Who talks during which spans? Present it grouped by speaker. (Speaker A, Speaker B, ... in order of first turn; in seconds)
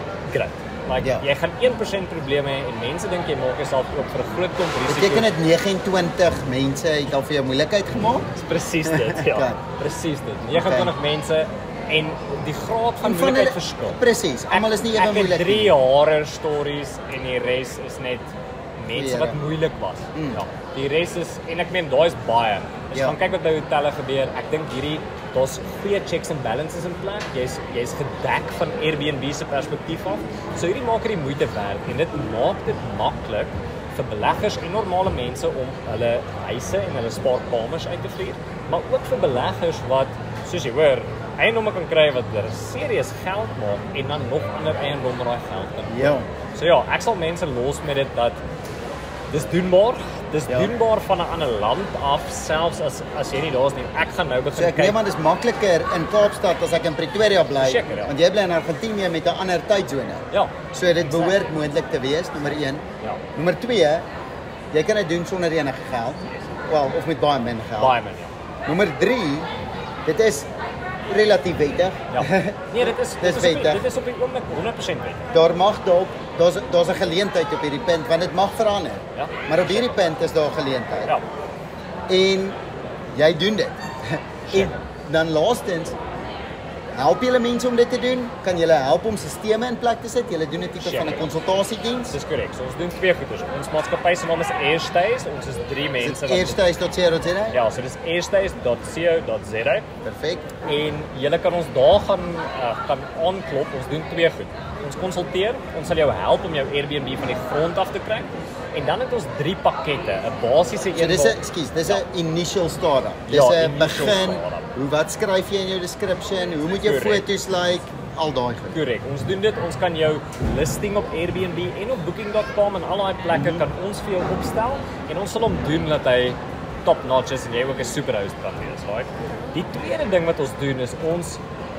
Speaker A: 0.3-5.3, 8.4-48.4, 49.3-55.0, 57.6-58.1, 60.3-61.4, 66.2-66.7, 67.8-68.3, 72.1-75.3, 79.1-80.0, 84.5-84.8, 90.8-91.3, 92.1-96.7, 97.5-99.9, 100.6-112.0, 113.3-114.7, 116.7-117.3, 118.7-131.4
Speaker B: 1.0-1.2, 4.8-9.6, 10.5-10.9, 13.0-15.8, 18.9-19.4, 20.1-20.4, 22.9-23.2, 45.9-46.3, 50.5-50.7, 54.5-62.8, 63.3-64.0, 64.7-68.0, 68.7-69.5, 70.0-70.5, 71.1-73.8, 75.3-81.1, 82.1-82.6, 83.1-86.0, 86.9-92.2, 96.0-97.6, 100.0-100.5, 110.9-118.8, 123.3-123.6